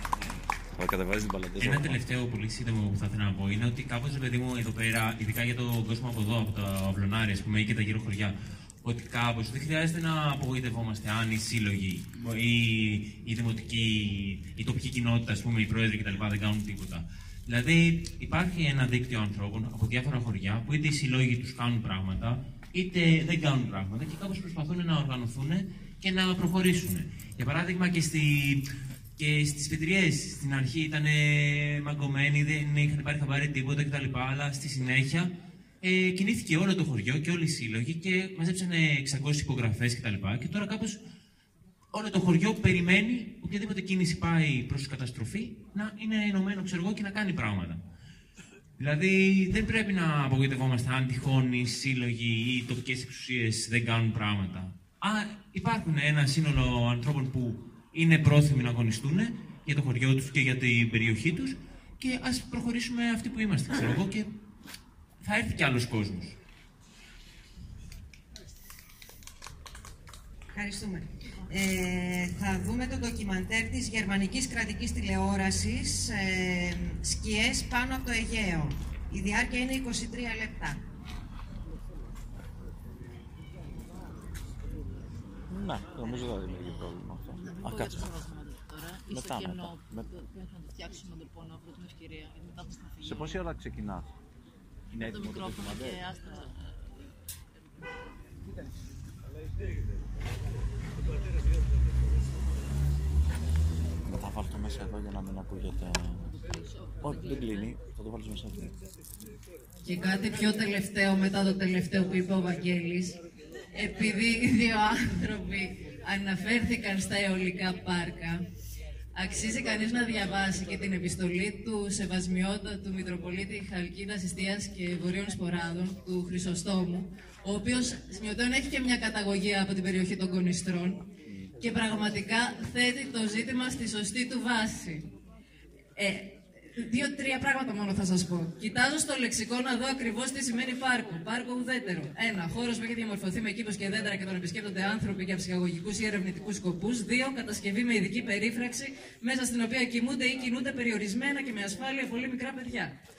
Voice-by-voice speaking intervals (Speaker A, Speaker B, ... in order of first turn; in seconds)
Speaker A: 0.7-2.0, 85.5-88.1, 89.1-90.1, 93.0-94.1, 94.9-96.2, 104.1-106.2, 107.0-108.7
Speaker B: 1.6-41.0, 41.9-47.8, 48.8-64.4, 65.2-66.4
Speaker C: 70.5-80.8
Speaker D: 86.0-93.4, 94.9-97.2, 106.2-107.7
Speaker E: 109.8-113.2, 113.7-118.5, 119.1-131.1, 131.6-135.1, 135.9-153.0